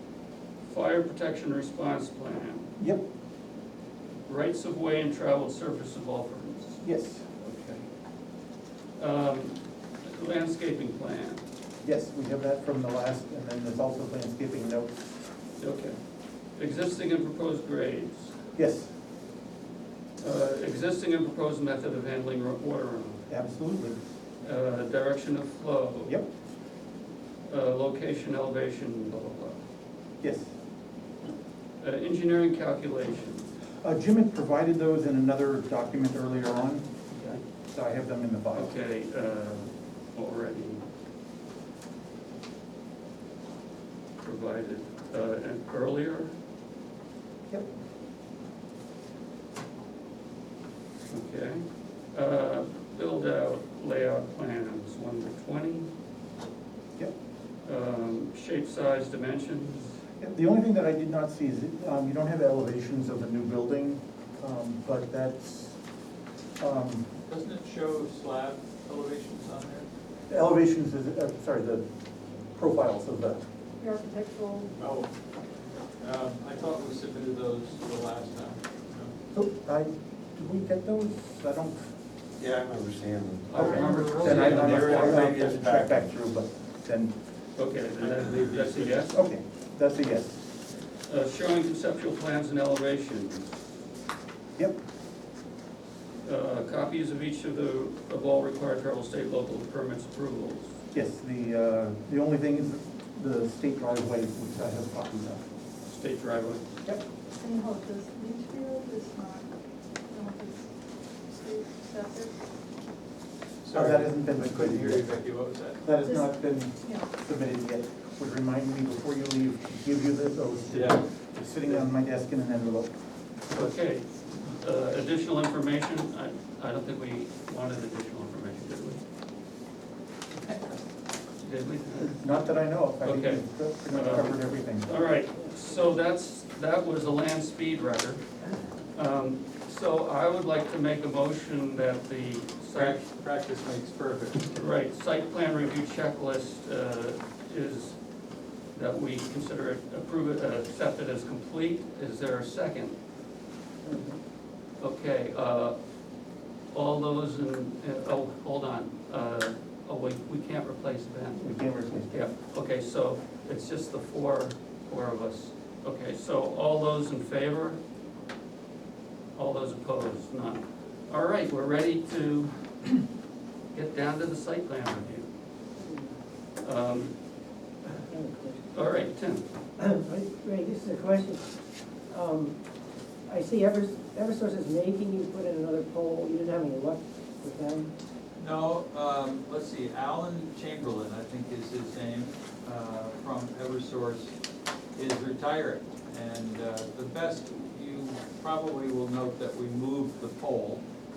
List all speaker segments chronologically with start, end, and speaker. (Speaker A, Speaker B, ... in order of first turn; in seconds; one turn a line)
Speaker A: 0.7-2.7
Speaker A: 4.3-6.8
Speaker B: 6.8-7.3
Speaker A: 7.4-7.8
Speaker A: 9.0-11.4
Speaker B: 11.8-15.0
Speaker A: 15.6-16.0
Speaker A: 16.6-18.3
Speaker B: 18.5-18.9
Speaker A: 20.2-23.2
Speaker B: 23.3-24.0
Speaker A: 24.4-26.2
Speaker A: 27.5-29.6
Speaker B: 30.2-30.5
Speaker A: 31.8-33.5
Speaker B: 33.8-36.9
Speaker A: 37.1-37.4
Speaker B: 37.7-38.7
Speaker A: 38.5-40.8
Speaker A: 44.2-46.3
Speaker A: 51.1-55.9
Speaker A: 57.6-59.9
Speaker B: 60.2-65.8
Speaker B: 66.6-67.1
Speaker C: 67.3-69.8
Speaker B: 70.3-71.8
Speaker B: 72.5-73.4
Speaker D: 73.8-74.7
Speaker C: 74.8-75.1
Speaker C: 76.0-79.1
Speaker B: 79.3-81.9
Speaker E: 82.4-86.1
Speaker A: 83.5-85.4
Speaker B: 83.5-87.2
Speaker A: 87.5-89.2
Speaker C: 88.0-89.0
Speaker B: 89.1-90.4
Speaker A: 91.1-93.5
Speaker A: 96.2-100.7
Speaker B: 100.9-105.4
Speaker A: 105.9-106.6
Speaker D: 107.4-112.4
Speaker C: 113.6-115.8
Speaker B: 113.7-115.1
Speaker B: 115.8-122.9
Speaker D: 116.0-117.1
Speaker C: 120.7-121.1
Speaker A: 123.5-129.0
Speaker A: 131.4-132.3
Speaker B: 132.1-134.9
Speaker A: 133.0-138.2
Speaker A: 138.9-143.0
Speaker C: 142.7-144.6
Speaker A: 144.5-148.0
Speaker A: 148.7-152.9
Speaker F: 153.8-154.2
Speaker A: 154.8-155.8
Speaker A: 156.7-167.8
Speaker B: 161.3-162.3
Speaker A: 169.3-173.0
Speaker A: 173.7-175.3
Speaker F: 175.8-176.1
Speaker A: 176.6-177.1
Speaker F: 178.1-178.6
Speaker A: 178.7-179.4
Speaker F: 179.8-181.5
Speaker F: 182.1-182.6
Speaker F: 183.2-187.9
Speaker C: 188.4-194.3
Speaker C: 194.9-200.8